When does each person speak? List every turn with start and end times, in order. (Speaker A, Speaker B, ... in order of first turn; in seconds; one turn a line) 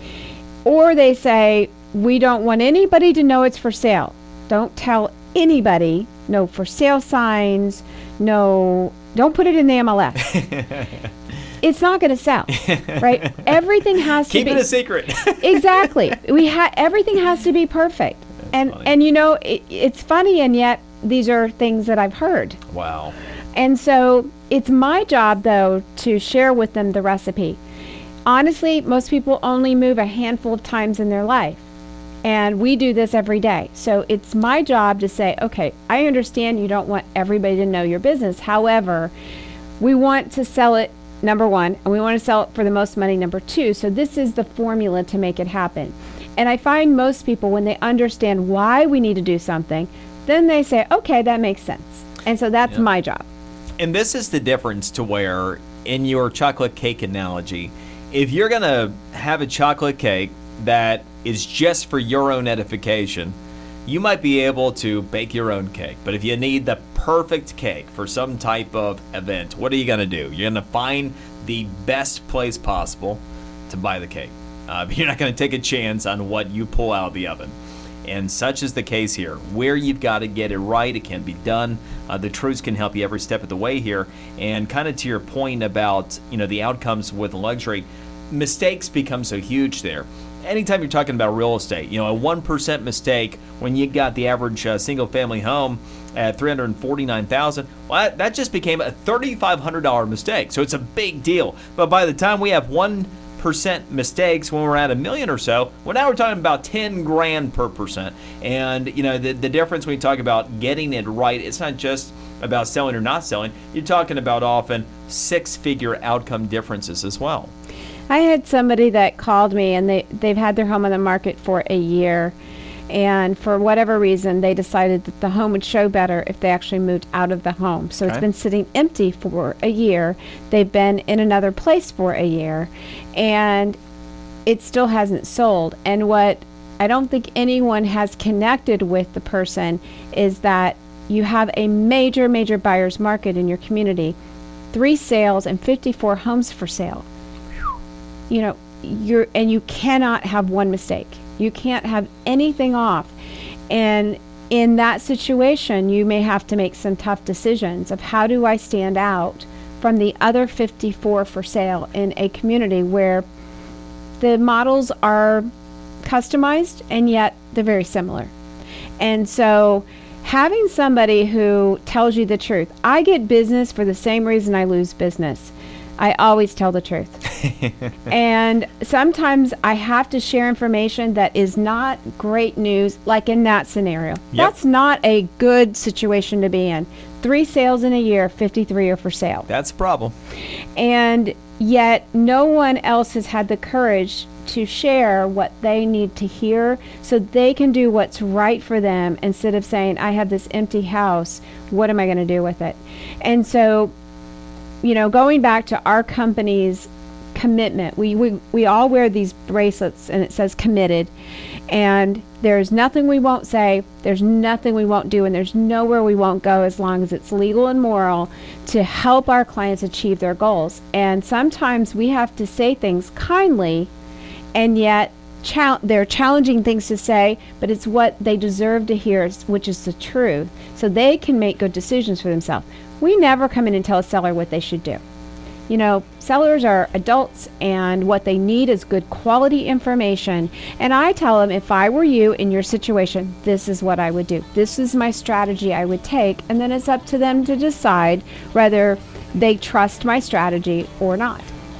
Speaker A: 0.6-10.4
Speaker B: 10.3-10.8
Speaker A: 11.6-14.7
Speaker B: 12.6-13.4
Speaker B: 14.3-15.9
Speaker A: 15.4-22.6
Speaker B: 18.6-18.9
Speaker B: 22.7-23.1
Speaker A: 23.5-27.6
Speaker A: 28.2-31.6
Speaker A: 32.2-39.1
Speaker A: 39.8-53.2
Speaker B: 53.8-63.3
Speaker B: 63.9-117.5
Speaker A: 118.1-122.3
Speaker A: 122.9-133.8
Speaker A: 134.4-144.2
Speaker A: 144.7-147.1
Speaker A: 148.3-153.1
Speaker A: 153.7-163.2
Speaker A: 164.2-165.4
Speaker A: 166.0-168.3
Speaker A: 169.0-177.3
Speaker B: 177.4-177.7
Speaker A: 178.1-189.5
Speaker B: 189.5-190.1
Speaker A: 190.8-203.9
Speaker A: 204.8-211.1
Speaker A: 211.7-223.9
Speaker A: 224.5-235.0
Speaker A: 235.7-251.5